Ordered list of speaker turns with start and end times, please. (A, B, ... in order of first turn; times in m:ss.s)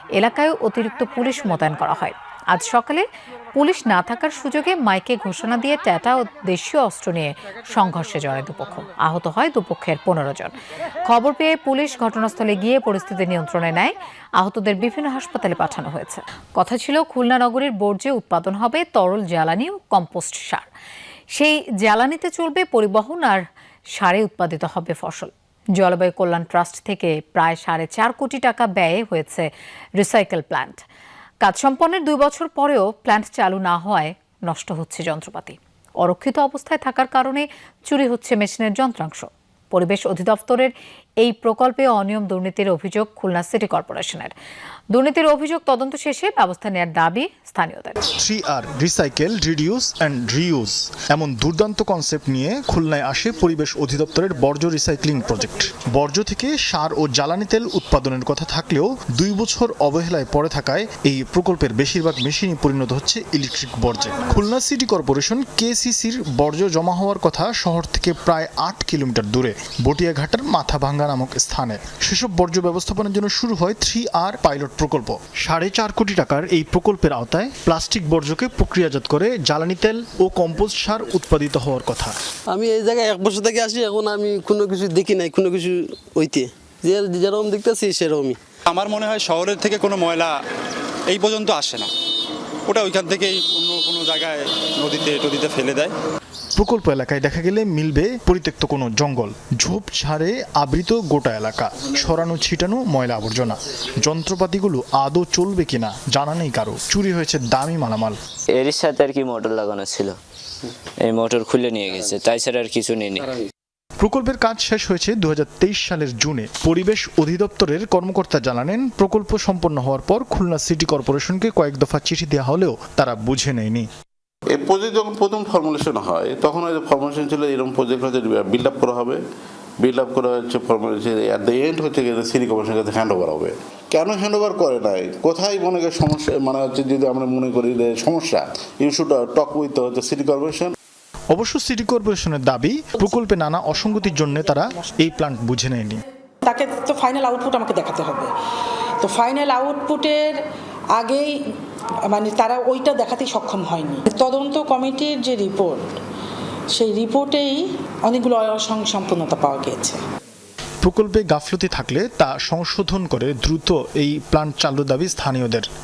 0:00.2-0:10.6 A
0:11.1-0:20.6 A
0:21.4-0:23.4 A
0:24.0-0:30.8 A
0:31.4-0:44.3 A
0:44.9-0:48.0 A
0:48.2-1:22.2 B
1:22.5-1:28.4 C
1:28.7-1:30.3 D
1:31.1-1:31.9 D
1:32.7-1:35.9 D
1:36.6-1:48.2 B
1:48.5-1:50.2 E
1:51.0-1:53.3 E
1:54.0-2:03.9 B
2:04.5-2:09.2 F
2:09.8-2:20.8 F
2:21.3-2:26.0 B
2:26.5-2:28.3 G
2:29.0-2:30.4 G
2:31.0-2:31.4 G
2:32.1-2:35.8 G
2:36.8-2:40.0 G
2:40.8-2:45.7 B